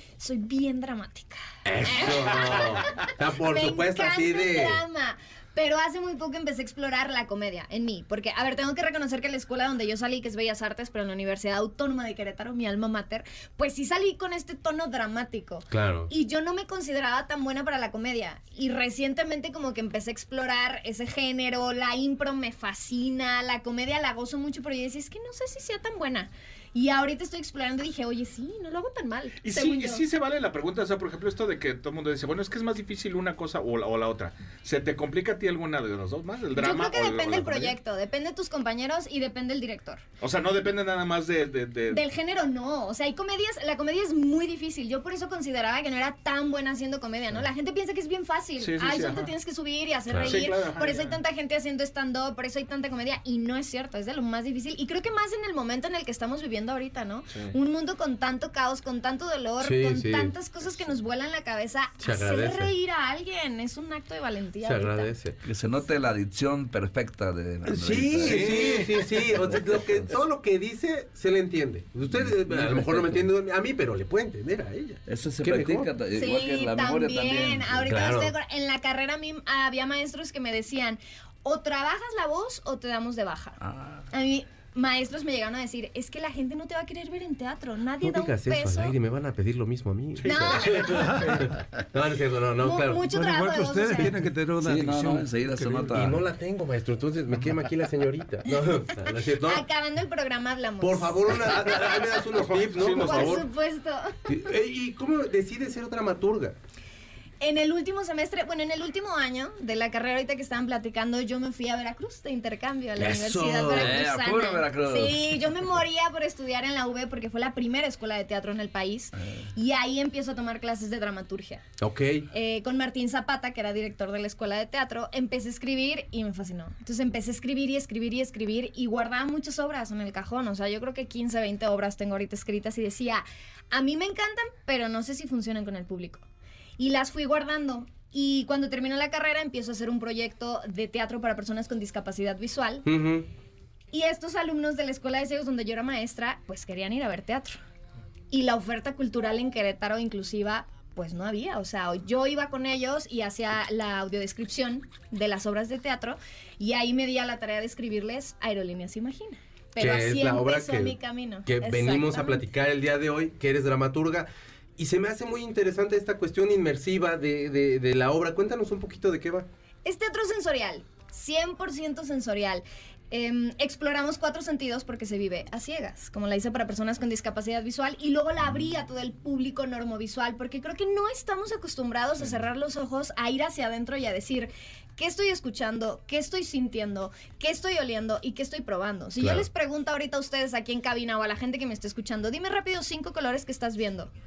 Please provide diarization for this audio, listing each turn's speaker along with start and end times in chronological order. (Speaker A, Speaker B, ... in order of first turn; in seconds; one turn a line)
Speaker A: 0.2-30.0
Speaker B: 1.6-4.8
Speaker B: 15.7-16.1
Speaker C: 29.4-37.8
Speaker A: 36.5-40.0
Speaker C: 40.2-42.0
Speaker A: 41.9-65.1
Speaker C: 48.6-49.3
Speaker B: 50.1-50.5
Speaker C: 50.2-51.2
Speaker B: 59.6-60.3
Speaker B: 62.0-62.7
Speaker B: 64.6-65.4
Speaker D: 65.4-70.0
Speaker B: 67.6-75.9
Speaker C: 68.2-69.2
Speaker D: 72.1-73.2
Speaker D: 75.1-77.9
Speaker A: 76.1-83.6
Speaker B: 77.9-78.3
Speaker D: 83.6-84.0
Speaker A: 84.1-88.9
Speaker B: 88.0-93.0
Speaker C: 90.2-91.4
Speaker A: 90.2-91.2
Speaker E: 90.9-91.4
Speaker A: 92.6-94.1
Speaker E: 93.0-96.0
Speaker D: 94.6-96.2
Speaker B: 95.9-99.6
Speaker A: 99.4-102.2
Speaker B: 100.8-103.5
Speaker C: 102.3-103.4
Speaker A: 102.8-104.5
Speaker B: 104.3-106.5
Speaker A: 107.4-121.6
Speaker B: 113.0-114.0
Speaker D: 113.7-115.5
Speaker B: 121.8-122.3
Speaker A: 122.3-136.2
Speaker A: 136.8-142.9
Speaker B: 142.8-143.3
Speaker A: 143.9-147.6
Speaker A: 148.3-162.4
Speaker B: 159.8-169.4
Speaker A: 169.8-194.1
Speaker B: 189.2-189.4